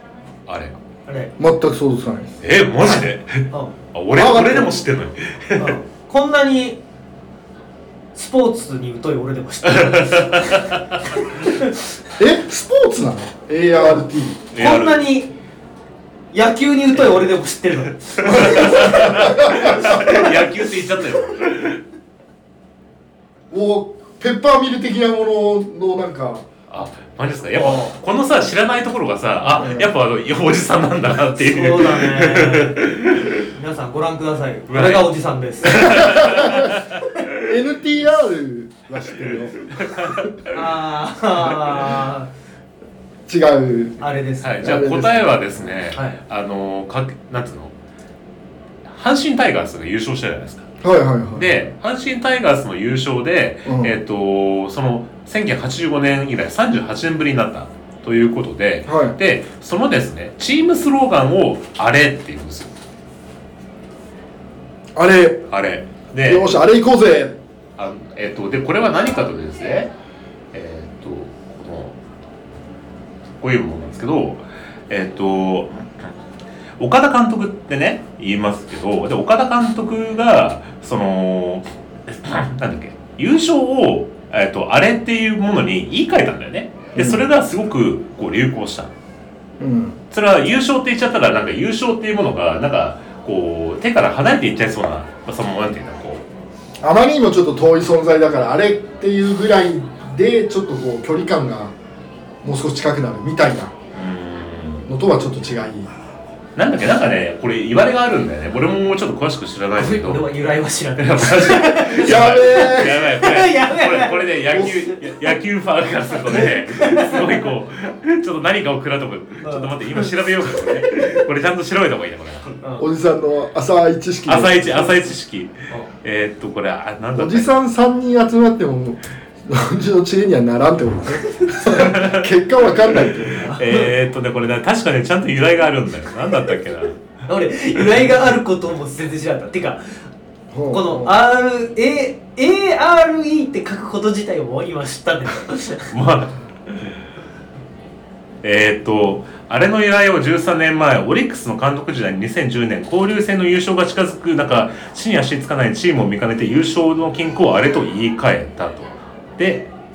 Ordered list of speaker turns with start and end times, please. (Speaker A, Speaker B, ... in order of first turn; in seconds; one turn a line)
Speaker A: 0.5-0.8
Speaker B: 1.1-1.3
Speaker C: 1.4-2.3
Speaker A: 2.4-5.8
Speaker C: 4.1-4.8
Speaker B: 5.6-6.8
Speaker B: 8.1-11.7
Speaker A: 9.8-10.8
Speaker C: 12.2-14.5
Speaker A: 14.5-15.1
Speaker B: 14.5-15.3
Speaker B: 16.3-19.7
Speaker A: 18.2-21.8
Speaker C: 18.2-20.0
Speaker C: 23.5-26.4
Speaker A: 26.7-33.5
Speaker B: 27.5-27.9
Speaker C: 29.6-29.9
Speaker B: 31.4-32.8
Speaker B: 33.4-36.4
Speaker A: 34.7-37.4
Speaker C: 35.9-40.3
Speaker A: 39.7-40.5
Speaker B: 40.5-42.3
Speaker C: 43.3-44.0
Speaker B: 44.0-44.8
Speaker A: 44.4-47.7
Speaker C: 44.6-45.7
Speaker B: 45.9-46.2
Speaker A: 48.9-50.7
Speaker C: 50.8-51.5
Speaker A: 51.3-62.7
Speaker C: 53.6-53.9
Speaker C: 58.9-59.1
Speaker C: 64.9-65.5
Speaker A: 65.5-66.5
Speaker C: 66.2-67.4
Speaker A: 67.8-69.9
Speaker A: 70.5-71.9
Speaker A: 73.4-75.8
Speaker A: 76.8-88.9
Speaker C: 86.9-87.2
Speaker C: 89.6-90.0
Speaker A: 90.1-96.2
Speaker C: 96.8-101.7
Speaker C: 102.4-103.7
Speaker A: 103.9-104.9
Speaker C: 104.8-105.9
Speaker A: 106.5-110.3
Speaker B: 109.8-115.0
Speaker A: 111.0-122.6
Speaker C: 111.9-113.0
Speaker B: 116.2-117.5
Speaker B: 119.4-120.0
Speaker B: 122.6-122.8
Speaker C: 122.8-125.1
Speaker A: 124.3-127.5
Speaker C: 127.2-133.5
Speaker A: 131.7-132.3
Speaker B: 133.4-133.9
Speaker A: 133.5-137.0
Speaker B: 137.3-139.9
Speaker C: 140.5-141.1
Speaker B: 140.7-145.9
Speaker A: 145.9-146.9
Speaker A: 148.4-159.7